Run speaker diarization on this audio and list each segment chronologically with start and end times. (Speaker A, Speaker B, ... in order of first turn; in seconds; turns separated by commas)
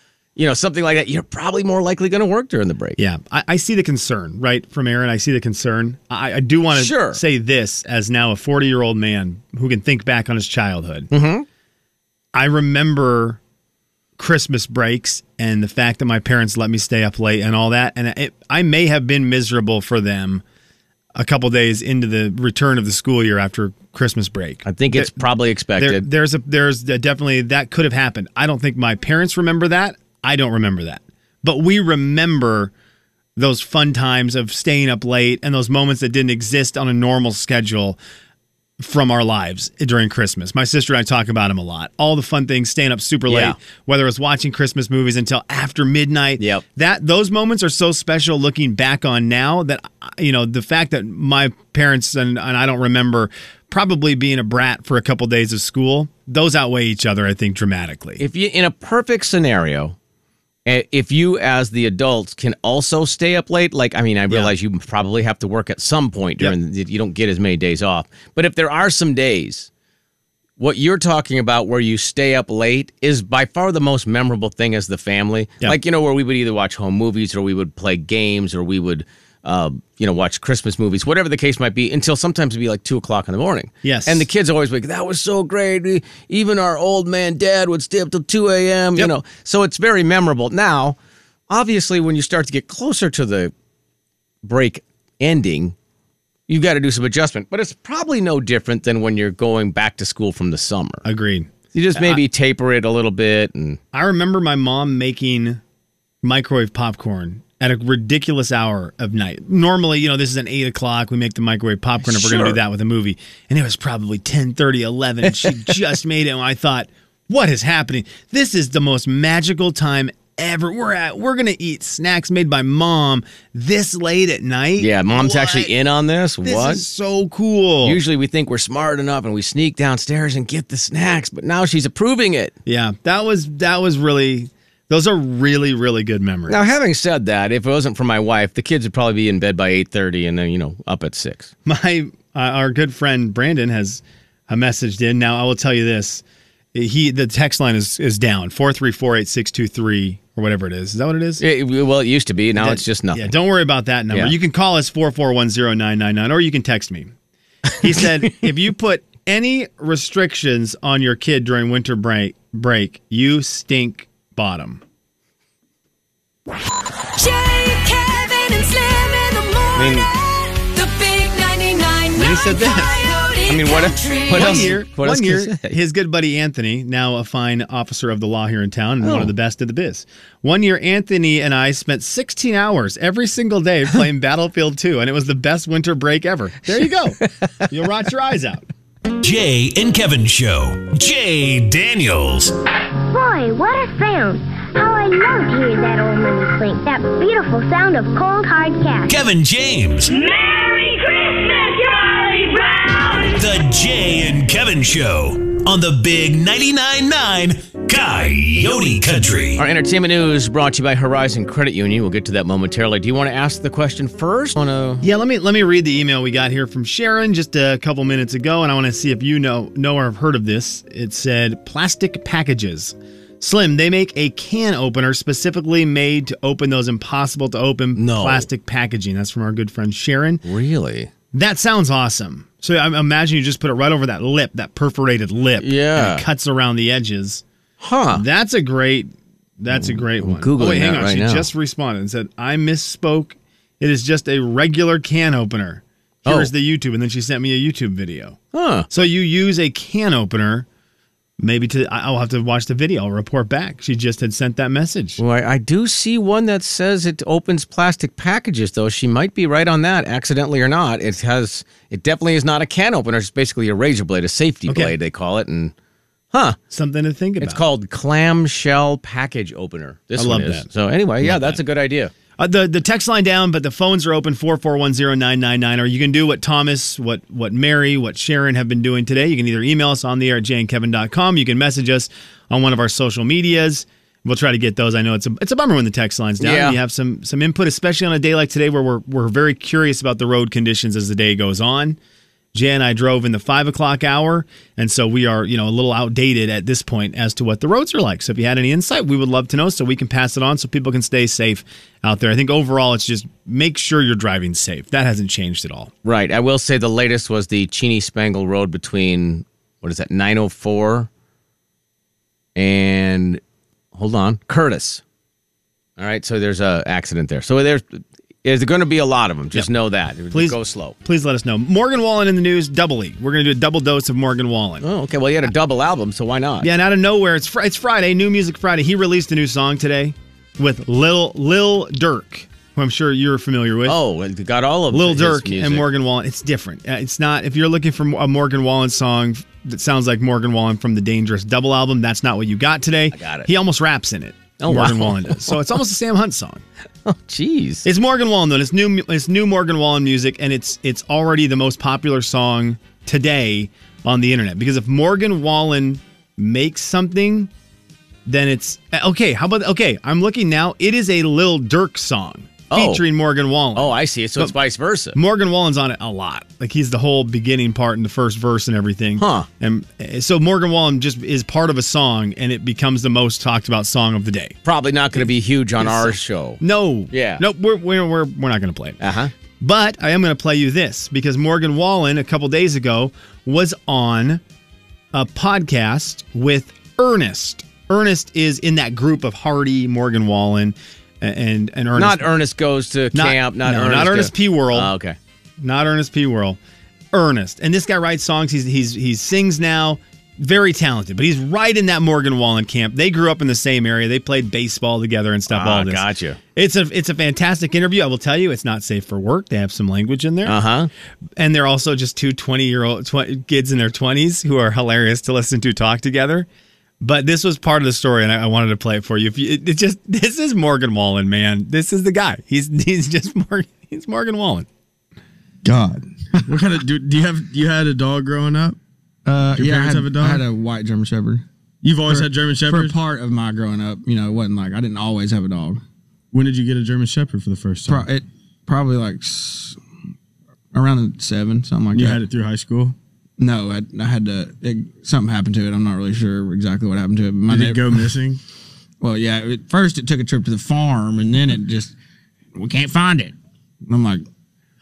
Speaker A: 0.4-3.0, Speaker B: 3.0-11.1, Speaker A: 6.7-7.2, Speaker A: 11.1-11.5, Speaker B: 12.3-13.4, Speaker B: 14.2-20.4, Speaker B: 21.1-25.2, Speaker A: 24.6-26.1, Speaker B: 25.8-32.7, Speaker B: 33.4-38.0, Speaker B: 38.8-58.2, Speaker A: 43.3-43.6, Speaker A: 46.4-46.6, Speaker A: 58.2-60.0, Speaker A: 60.7-69.7, Speaker A: 70.6-91.0, Speaker B: 83.8-84.3, Speaker A: 91.5-93.5, Speaker A: 94.4-95.8, Speaker A: 96.5-101.0, Speaker B: 101.0-102.2, Speaker A: 101.7-103.8, Speaker B: 103.9-105.6, Speaker B: 106.2-125.7, Speaker A: 112.0-112.6, Speaker A: 115.4-115.7, Speaker A: 124.8-126.8, Speaker B: 126.4-128.0, Speaker A: 127.8-132.5, Speaker B: 132.7-136.6, Speaker A: 136.5-141.5, Speaker B: 141.7-146.2, Speaker B: 146.7-151.4, Speaker A: 151.4-153.3, Speaker B: 152.6-157.1, Speaker B: 157.8-164.8, Speaker C: 167.2-174.8, Speaker A: 169.8-170.1, Speaker B: 172.2-172.9, Speaker A: 173.5-175.8, Speaker B: 174.3-188.7, Speaker A: 179.0-179.3, Speaker A: 187.2-187.7, Speaker D: 189.2-192.5, Speaker E: 193.1-199.1, Speaker D: 199.1-200.1, Speaker D: 202.9-209.6, Speaker A: 209.6-215.1, Speaker B: 215.0-230.4, Speaker A: 228.0-228.5, Speaker A: 230.4-231.1, Speaker B: 231.3-237.4, Speaker A: 235.6-236.3, Speaker A: 237.8-238.2, Speaker B: 238.1-248.4, Speaker A: 239.7-241.5, Speaker A: 246.2-246.5, Speaker A: 248.5-248.9, Speaker B: 248.9-250.7, Speaker B: 251.4-255.2, Speaker A: 255.2-265.7, Speaker B: 264.7-264.9, Speaker A: 266.3-266.6, Speaker B: 266.7-267.6, Speaker A: 267.4-272.1, Speaker B: 270.2-270.7, Speaker B: 271.2-271.6, Speaker B: 272.4-292.0, Speaker A: 286.4-286.8, Speaker B: 292.5-305.9, Speaker A: 306.1-311.1, Speaker A: 312.6-313.4, Speaker A: 313.9-315.0, Speaker A: 316.0-321.0, Speaker B: 320.3-324.9, Speaker A: 324.8-326.7, Speaker B: 326.6-334.0, Speaker A: 333.9-335.9, Speaker B: 334.9-346.6, Speaker A: 343.1-343.5, Speaker A: 344.6-345.6, Speaker A: 347.1-347.9, Speaker B: 347.9-357.5, Speaker B: 358.3-364.6, Speaker A: 362.7-363.0, Speaker A: 363.8-365.2, Speaker B: 365.1-374.6, Speaker A: 369.2-369.5, Speaker A: 374.6-377.4, Speaker B: 375.2-379.0, Speaker A: 379.0-379.3, Speaker B: 379.6-384.4, Speaker B: 385.1-392.3, Speaker A: 391.9-395.2, Speaker B: 393.1-394.9, Speaker B: 395.6-396.6, Speaker B: 397.1-410.6, Speaker A: 405.5-406.4, Speaker A: 410.4-410.9, Speaker B: 411.4-416.5, Speaker B: 417.0-424.7, Speaker F: 425.7-426.8, Speaker G: 426.4-428.8, Speaker F: 429.3-431.4, Speaker G: 429.4-430.5, Speaker G: 431.8-433.0, Speaker F: 432.0-435.8, Speaker G: 436.3-438.1, Speaker F: 437.9-439.8, Speaker F: 440.7-442.2, Speaker G: 441.9-443.0, Speaker F: 443.4-448.3, Speaker G: 447.5-448.4, Speaker F: 449.0-452.0, Speaker F: 452.5-454.2